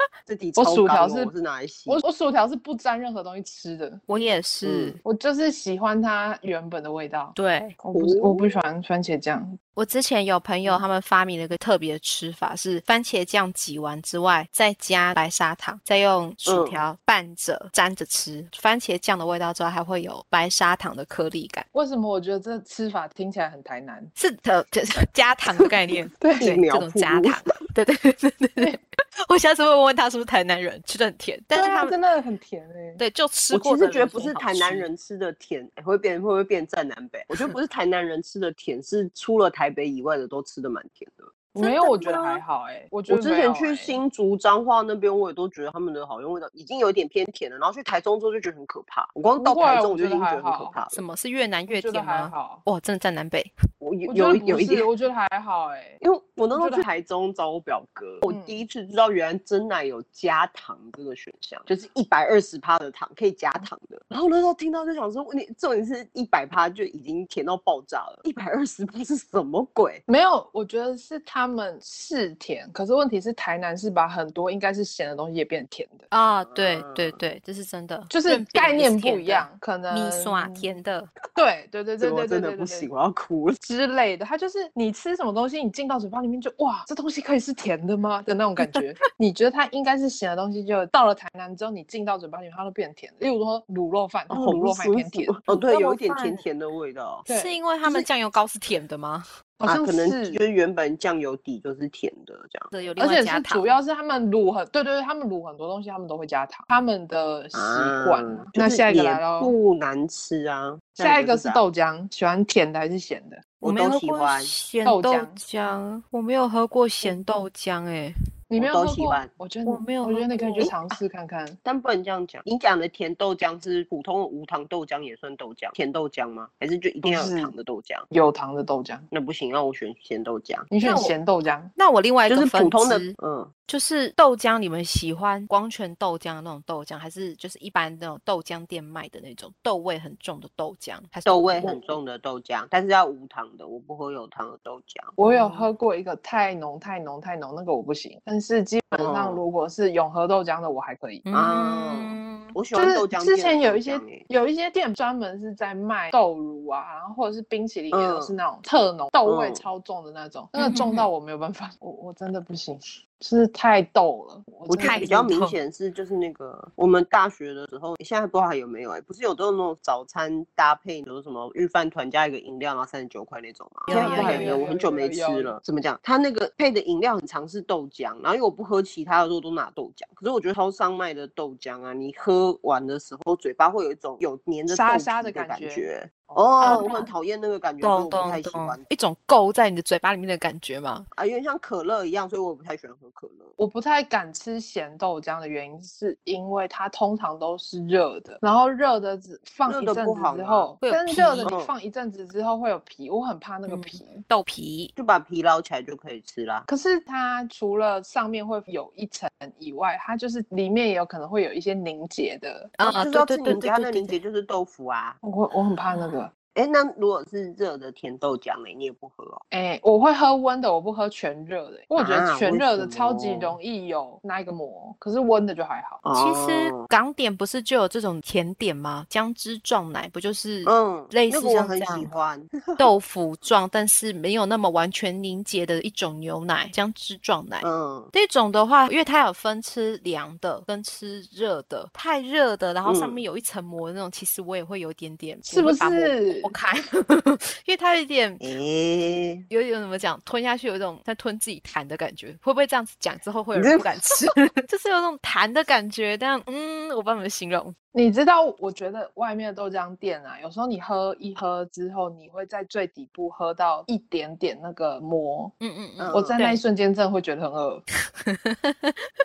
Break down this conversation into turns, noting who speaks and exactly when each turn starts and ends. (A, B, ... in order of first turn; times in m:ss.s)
0:00.3-0:02.0 A
0:00.6-0:01.3 B
0:01.9-0:04.0 B
0:04.1-0:05.0 C
0:04.6-0:05.0 A
0:05.0-0:09.6 B
0:07.4-0:07.8 C
0:08.0-0:08.6 A
0:09.8-0:21.7 C
0:16.4-0:16.8 A
0:21.7-0:24.1 B
0:24.2-0:32.0 C
0:25.6-0:27.4 A
0:26.2-0:26.5 B
0:31.5-0:33.0 B
0:33.0-0:34.9 C
0:33.5-0:42.4 A
0:41.6-0:44.0 B
0:43.1-0:51.0 A
0:49.4-0:50.8 B
0:50.9-0:53.5 C
0:51.7-0:52.6 B
0:53.8-0:54.9 A
0:54.1-0:56.0 B
0:56.0-1:10.0 A
0:56.5-0:56.9 B
0:58.2-0:58.6 B
1:10.1-1:16.1 B
1:16.1-1:21.1 C
1:16.4-1:17.2 A
1:18.1-1:20.7 B
1:21.3-1:22.9 B
1:22.0-1:23.6 A
1:23.6-1:35.5 B
1:34.3-1:37.2 A
1:35.5-1:36.4 C
1:37.3-1:37.6 B
1:37.3-1:39.3 C
1:39.6-1:40.4 B
1:39.7-1:42.7 A
1:42.7-1:43.8 C
1:43.0-1:49.5 B
1:47.5-1:51.6 A
1:51.0-1:53.4 B
1:53.6-1:54.5 A
1:53.6-1:58.1 C
1:54.8-1:55.4 B
1:58.5-2:01.6 B
1:58.6-1:59.3 A
1:59.7-2:00.7 C
2:00.4-2:00.8 A
2:01.6-2:08.1 A
2:07.0-2:07.5 B
2:08.1-2:09.1 B
2:09.1-2:11.1 A
2:10.7-2:11.7 B
2:10.8-2:11.1 C
2:11.8-2:13.1 C
2:12.3-2:13.5 A
2:13.7-2:21.8 C
2:21.3-2:25.2 A
2:25.2-2:31.2 B
2:25.2-2:25.7 C
2:28.9-2:29.4 A
2:31.3-2:32.6 C
2:31.3-2:34.2 A
2:32.8-2:45.2 B
2:37.9-2:38.3 A
2:39.3-2:39.6 A
2:40.6-2:41.1 C
2:44.7-3:08.8 A
2:44.8-2:45.6 C
2:53.9-2:54.6 C
2:53.9-2:55.6 B
3:04.7-3:07.1 B
3:06.6-3:07.1 C
3:07.8-3:11.1 C
3:11.1-3:13.5 A
3:13.6-3:24.2 B
3:19.7-3:20.7 A
3:20.8-3:21.5 C
3:21.4-3:21.7 A
3:23.7-3:24.9 C
3:25.0-3:26.7 A
3:26.7-3:32.8 B
3:32.8-3:34.2 C
3:32.8-3:35.2 A
3:35.2-3:36.3 B
3:36.6-3:39.4 A
3:39.5-3:46.0 B
3:42.0-3:43.6 A
3:46.0-3:46.9 A
3:46.2-3:52.1 C
3:50.6-3:52.9 A
3:52.8-4:08.4 C
3:57.6-3:58.1 A
4:02.8-4:03.2 A
4:05.5-4:06.6 B
4:08.4-4:09.4 A
4:09.5-4:17.8 C
4:13.5-4:14.2 A
4:17.9-4:25.5 B
4:25.6-4:26.6 C
4:26.0-4:26.3 A
4:26.1-4:27.8 B
4:28.2-4:29.0 C